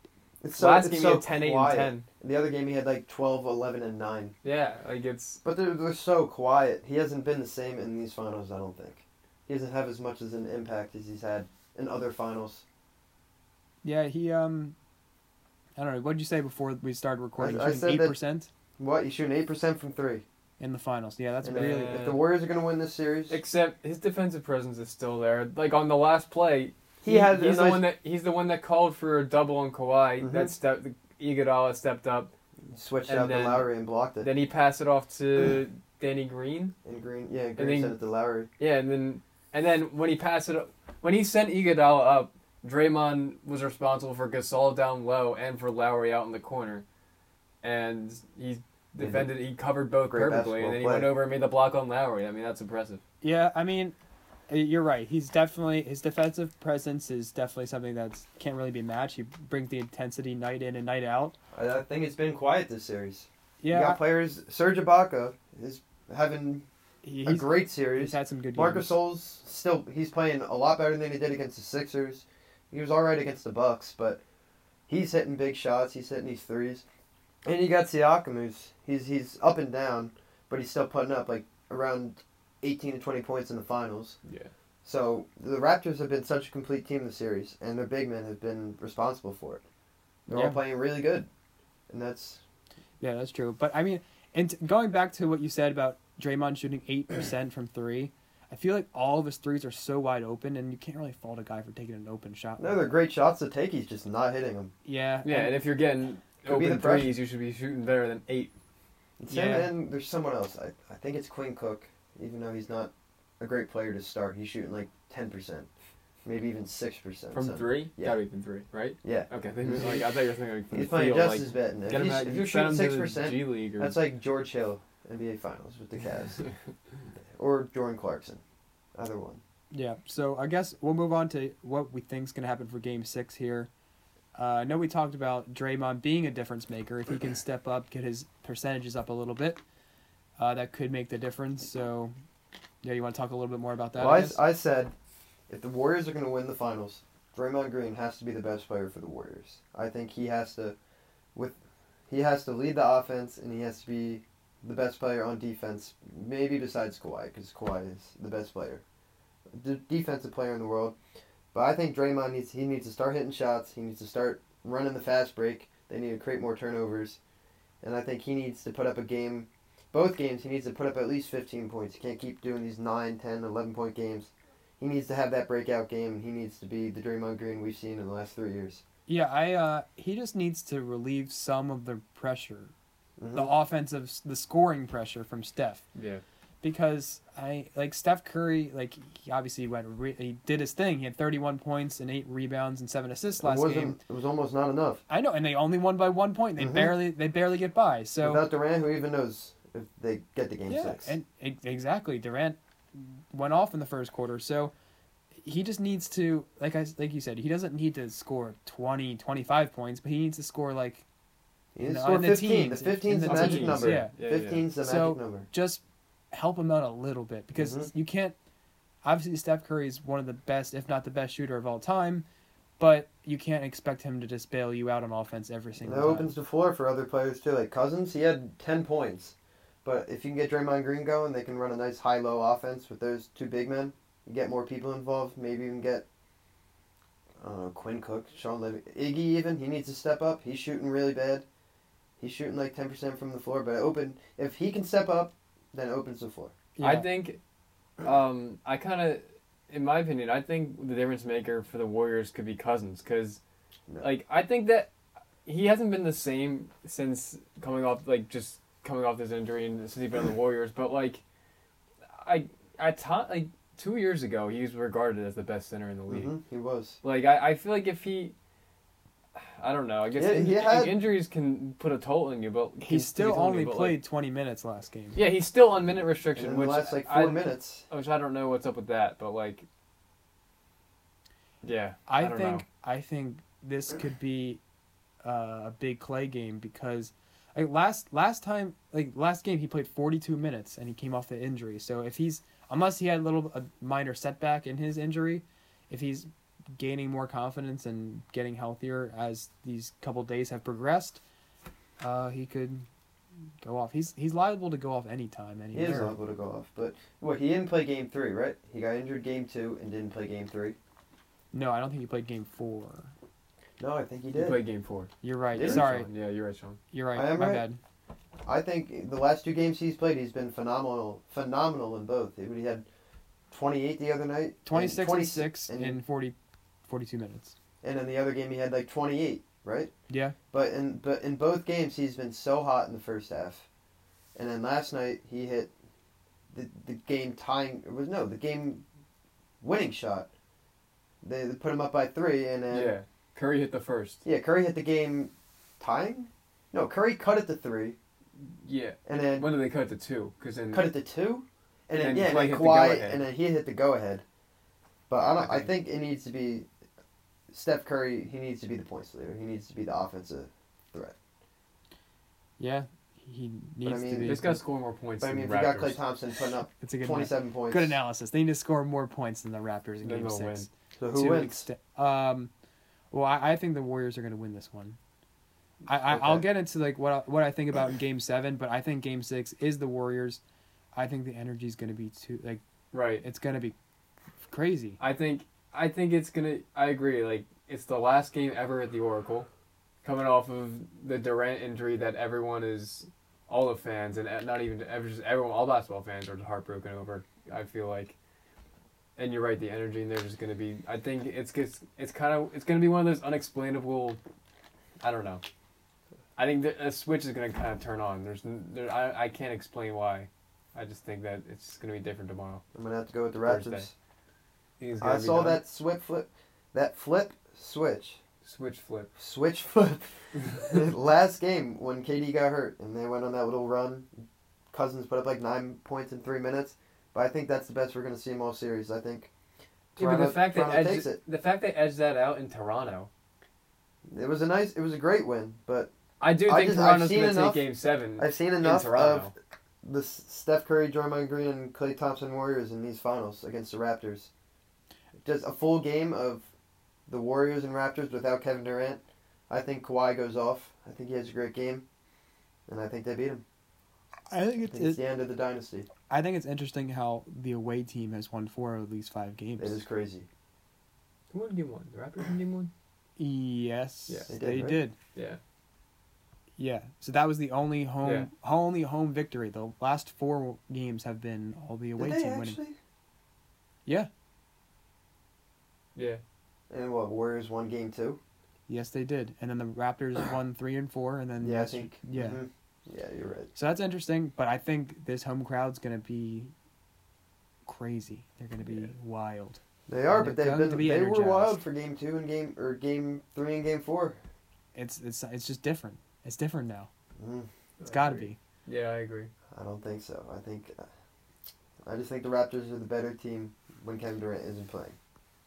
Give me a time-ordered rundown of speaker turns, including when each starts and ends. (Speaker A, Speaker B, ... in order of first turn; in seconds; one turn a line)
Speaker A: 0.4-4.3
Speaker B: 0.6-2.0
Speaker B: 4.4-5.4
Speaker A: 5.4-12.6
Speaker C: 13.8-14.8
Speaker C: 15.8-18.5
Speaker A: 17.4-18.1
Speaker A: 18.8-20.2
Speaker C: 20.6-22.2
Speaker A: 21.4-23.4
Speaker B: 21.5-22.2
Speaker B: 23.3-32.3
Speaker A: 27.0-27.8
Speaker A: 30.2-30.5
Speaker A: 32.7-34.3
Speaker B: 33.1-33.7
Speaker B: 34.2-36.7
Speaker A: 36.8-38.5
Speaker B: 37.6-37.9
Speaker B: 38.6-46.8
Speaker B: 47.6-53.0
Speaker A: 49.0-49.3
Speaker A: 50.1-51.1
Speaker C: 53.2-54.0
Speaker C: 54.5-61.3
Speaker A: 61.5-66.7
Speaker C: 63.6-64.0
Speaker C: 67.0-68.9
Speaker A: 67.2-74.2
Speaker A: 74.9-76.8
Speaker A: 77.4-84.2
Speaker B: 84.2-84.5
Speaker A: 84.8-89.6
Speaker A: 90.3-91.3
Speaker C: 90.3-90.6
Speaker A: 91.9-92.4
Speaker C: 93.0-102.8
Speaker A: 102.6-104.7
Speaker C: 104.8-105.6
Speaker B: 105.2-108.5
Speaker A: 106.4-107.1
Speaker A: 109.2-115.7
Speaker C: 109.3-109.7
Speaker A: 116.2-118.2
Speaker B: 117.3-124.0
Speaker A: 119.0-120.1
Speaker A: 120.7-126.4
Speaker A: 127.3-128.4
Speaker A: 128.9-129.4
Speaker C: 129.7-133.7
Speaker C: 134.3-139.6
Speaker C: 140.4-142.1
Speaker C: 142.8-144.4
Speaker A: 143.9-144.9
Speaker A: 145.5-150.8
Speaker A: 152.1-158.8
Speaker A: 159.5-160.9
Speaker A: 161.5-167.2
Speaker A: 167.8-178.8
Speaker C: 179.1-182.7
Speaker A: 183.2-183.5
Speaker C: 183.3-185.8
Speaker B: 185.9-186.2
Speaker C: 186.6-194.0
Speaker A: 193.4-195.0
Speaker C: 195.1-198.4
Speaker A: 196.6-196.9
Speaker A: 198.2-201.1
Speaker C: 200.7-204.7
Speaker C: 205.4-211.0
Speaker A: 211.7-215.5
Speaker C: 211.8-214.1
Speaker B: 213.2-214.6
Speaker C: 214.8-218.3
Speaker A: 217.5-217.9
Speaker C: 219.0-222.2
Speaker C: 222.8-226.3
Speaker A: 225.8-236.0
Speaker A: 237.4-241.4
Speaker A: 242.2-246.5
Speaker C: 246.8-247.1
Speaker B: 246.8-247.4
Speaker B: 248.0-253.4
Speaker B: 254.0-254.9
Speaker B: 255.4-261.2
Speaker B: 262.1-266.3
Speaker A: 266.1-267.0
Speaker B: 267.0-268.3
Speaker B: 269.3-274.0
Speaker A: 270.1-271.0
Speaker C: 272.8-275.2
Speaker B: 275.1-279.6
Speaker A: 276.3-277.9
Speaker B: 281.6-282.6
Speaker C: 282.1-284.6
Speaker C: 285.2-301.2
Speaker C: 302.0-302.9
Speaker C: 303.6-306.1
Speaker A: 305.7-310.8
Speaker C: 311.5-313.1
Speaker A: 313.8-314.6
Speaker B: 314.3-316.8
Speaker C: 315.2-316.1
Speaker A: 315.6-315.9
Speaker C: 316.9-317.8
Speaker A: 317.1-317.6
Speaker A: 318.4-322.9
Speaker A: 323.5-326.0
Speaker C: 324.6-326.4
Speaker C: 326.9-327.5
Speaker A: 327.8-329.9
Speaker C: 330.1-330.4
Speaker A: 330.5-333.7
Speaker A: 334.4-335.7
Speaker A: 336.5-338.8
Speaker A: 339.6-340.3
Speaker A: 341.2-342.9
Speaker B: 342.7-344.2
Speaker A: 344.2-348.0
Speaker B: 348.5-350.9
Speaker A: 349.1-349.5
Speaker A: 350.7-354.2
Speaker B: 352.0-353.2
Speaker A: 355.1-356.7
Speaker B: 355.2-355.7
Speaker A: 357.5-361.1
Speaker C: 362.6-364.6
Speaker A: 363.8-364.4
Speaker B: 364.2-366.0
Speaker A: 365.2-367.9
Speaker C: 366.8-372.5
Speaker B: 370.0-370.7
Speaker A: 371.0-371.7
Speaker C: 373.1-375.0
Speaker C: 375.9-380.4
Speaker A: 376.1-376.4
Speaker C: 380.9-382.6
Speaker B: 382.9-383.2
Speaker C: 383.2-383.7
Speaker C: 384.5-385.0
Speaker B: 385.0-389.5
Speaker B: 390.0-398.1
Speaker B: 399.1-404.2
Speaker B: 405.0-405.4
Speaker B: 406.4-412.6
Speaker A: 412.7-413.9
Speaker B: 413.4-413.9
Speaker B: 414.8-415.6
Speaker A: 415.0-418.2
Speaker B: 418.4-419.1
Speaker A: 419.2-424.1
Speaker A: 424.7-429.3
Speaker A: 429.9-431.2
Speaker B: 430.0-433.1
Speaker A: 434.1-435.9
Speaker B: 436.2-439.3
Speaker A: 436.4-437.6
Speaker A: 438.2-444.3
Speaker A: 445.2-446.5
Speaker A: 447.1-451.8
Speaker A: 452.7-453.4
Speaker C: 454.3-455.0
Speaker A: 454.7-455.9
Speaker C: 456.1-459.8
Speaker A: 459.6-460.3
Speaker B: 461.3-462.7
Speaker C: 463.2-464.9
Speaker A: 464.3-464.8
Speaker B: 465.1-465.4
Speaker C: 466.6-472.6
Speaker B: 468.0-468.3
Speaker A: 472.0-472.8
Speaker B: 475.9-476.2
Speaker A: 476.7-478.2
Speaker C: 478.7-482.4
Speaker A: 481.4-483.5
Speaker C: 483.5-486.5
Speaker C: 487.6-491.6
Speaker B: 488.6-488.9
Speaker A: 489.9-494.2
Speaker C: 494.7-496.9
Speaker A: 497.2-497.5
Speaker B: 497.8-498.1
Speaker C: 497.8-498.4
Speaker B: 498.6-499.3
Speaker A: 499.5-500.9
Speaker A: 501.8-504.9